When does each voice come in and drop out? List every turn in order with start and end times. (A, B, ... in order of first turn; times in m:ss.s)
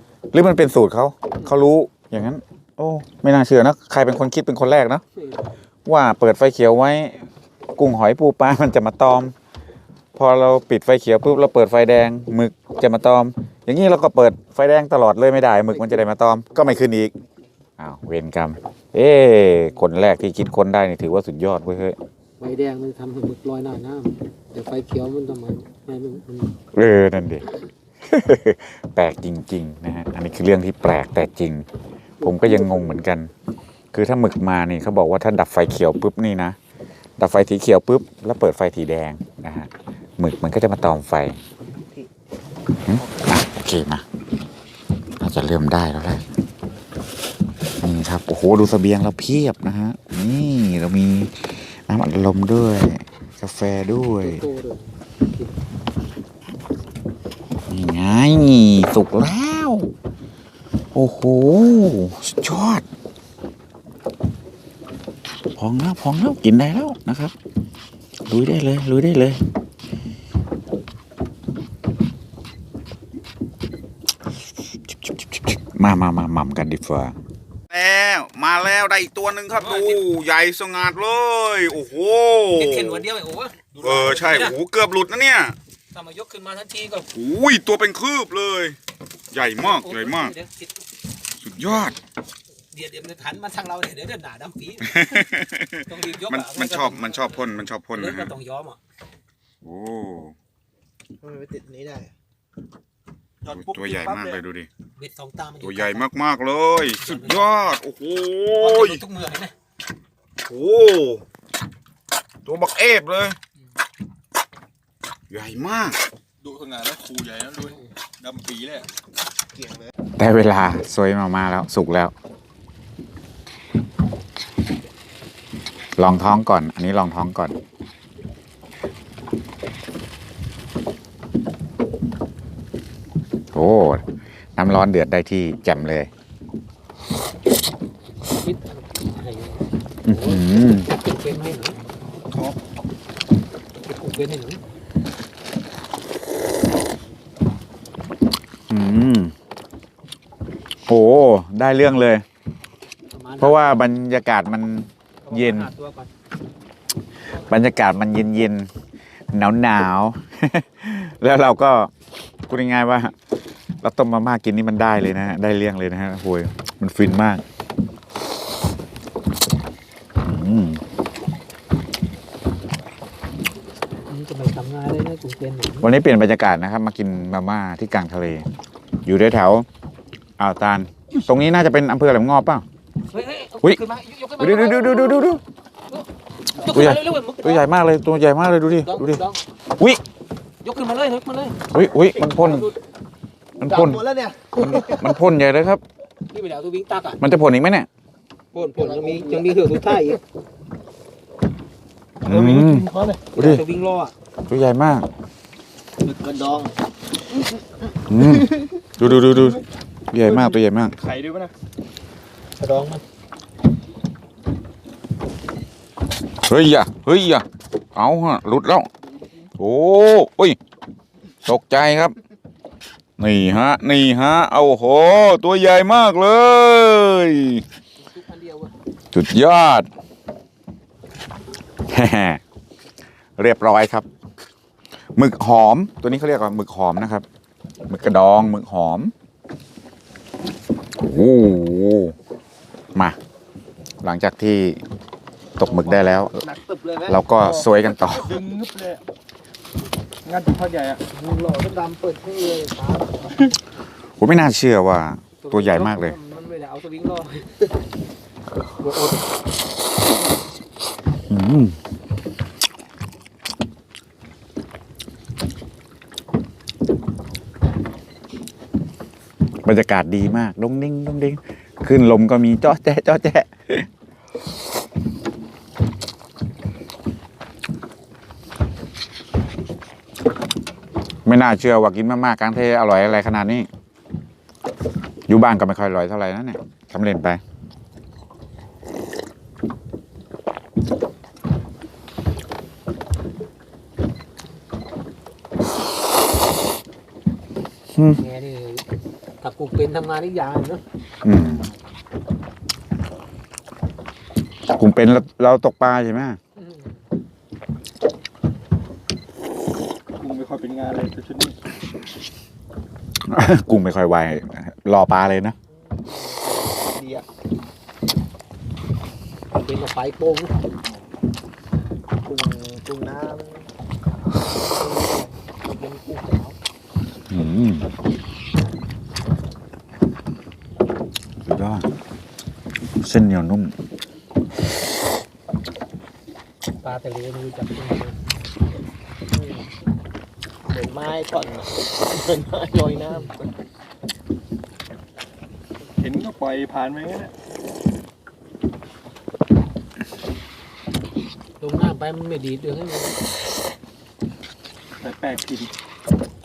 0:00.3-0:05.0 A
0:05.2-0:05.5 B
0:05.9-0:09.3 A
0:10.2-0:17.1 A
0:15.7-0:16.1 B
0:17.8-0:22.0 A
0:22.4-0:26.6 B
0:26.7-0:27.5 A
0:28.1-0:31.7 A
0:32.2-0:33.0 B
0:32.2-0:33.3 A
0:33.9-0:36.6 A
0:37.2-0:41.4 A
0:42.9-0:44.0 A
0:43.0-0:43.2 C
0:45.2-0:46.2 A
0:47.8-0:54.5 A
0:54.2-0:55.5 B
0:57.7-0:59.9 A
1:00.9-1:02.8 A
1:05.6-1:07.3 A
1:08.3-1:09.4 A
1:14.7-1:17.2 A
1:17.7-1:23.0 A
1:19.6-1:20.0 B
1:22.6-1:24.6 B
1:23.7-1:24.2 D
1:23.8-1:25.6 A
1:25.9-1:27.1 B
1:27.1-1:28.8 A
1:29.3-1:30.3 A
1:29.5-1:30.8 B
1:31.4-1:32.0 A
1:32.7-1:35.2 B
1:34.8-1:38.4 A
1:35.9-1:38.8 B
1:39.6-1:40.4 A
1:41.2-1:42.1 C
1:43.4-1:44.4 D
1:43.5-1:44.7 A
1:45.0-1:46.1 B
1:45.6-1:49.0 A
1:47.0-1:47.8 B
1:48.6-1:49.5 B
1:50.4-1:51.2 A
1:52.4-1:53.4 A
1:55.3-1:56.0 A
1:56.4-1:58.9 D
2:00.2-2:02.1 A
2:06.0-2:07.6 A
2:13.5-2:16.1 A
2:18.3-2:21.8 B
2:20.0-2:20.9 A
2:23.8-2:24.6 B
2:28.7-2:29.3 A
2:30.9-2:32.2 A
2:33.1-2:33.8 B
2:33.4-2:35.7 A
2:35.2-2:36.1 B
2:37.3-2:38.7 A
2:39.3-2:41.9 A
2:42.5-2:43.1 A
2:43.8-2:47.4 A
2:50.2-2:50.8 A
2:54.1-2:55.9 B
2:55.8-2:58.5 A
2:59.0-2:59.7 A
3:00.4-3:02.6 A
3:03.1-3:05.3 B
3:04.4-3:05.4 A
3:05.9-3:07.6 B
3:06.6-3:09.2 A
3:08.7-3:09.4 B
3:09.8-3:10.0 A
3:10.6-3:11.6 B
3:11.7-3:12.7 A
3:12.3-3:12.8 B
3:13.6-3:15.2 C
3:13.6-3:15.8 A
3:16.3-3:17.2 B
3:17.2-3:17.9 A
3:18.5-3:20.2 B
3:18.6-3:19.6 C
3:22.2-3:23.3 C
3:22.2-3:23.6 A
3:23.3-3:24.2 B
3:24.5-3:25.1 A
3:26.0-3:26.7 C
3:28.1-3:31.0 A
3:28.4-3:28.6 C
3:31.0-3:31.5 D
3:32.6-3:33.0 B
3:36.5-3:37.4 A
3:38.0-3:38.9 A
3:39.6-3:40.6 A
3:41.5-3:42.2 A
3:43.2-3:47.6 A
3:48.0-3:48.7 B
3:49.1-3:49.9 A
3:51.9-3:52.4 A
3:53.4-3:54.1 A
3:55.2-3:57.2 A
3:57.9-3:59.1 A
4:01.0-4:02.2 A
4:04.0-4:04.8 A
4:05.6-4:06.4 A
4:05.8-4:07.6 C
4:07.0-4:08.4 A
4:08.0-4:09.0 D
4:10.2-4:11.0 D
4:11.2-4:13.4 B
4:11.8-4:12.3 C
4:14.2-4:16.2 A
4:15.4-4:17.7 B
4:18.8-4:19.3 B
4:21.3-4:21.8 A
4:29.6-4:33.9 A
4:41.3-4:43.7 A
4:45.3-4:47.4 A
4:58.0-4:58.2 A
4:58.1-4:58.8 B
4:59.4-5:00.8 B
5:01.2-5:01.7 A
5:04.7-5:06.4 A
5:06.6-5:07.0 B
5:10.2-5:11.6 D
5:13.3-5:15.6 A
5:15.7-5:17.3 C
5:19.6-5:20.5 B
5:22.2-5:23.7 C
5:24.4-5:26.6 C
5:27.3-5:27.9 A
5:31.4-5:31.9 A
5:33.0-5:33.7 A
5:36.8-5:38.2 B
5:39.3-5:39.7 C
5:40.7-5:43.5 C
5:46.0-5:47.3 D
5:51.6-5:53.2 B
5:55.0-5:55.7 D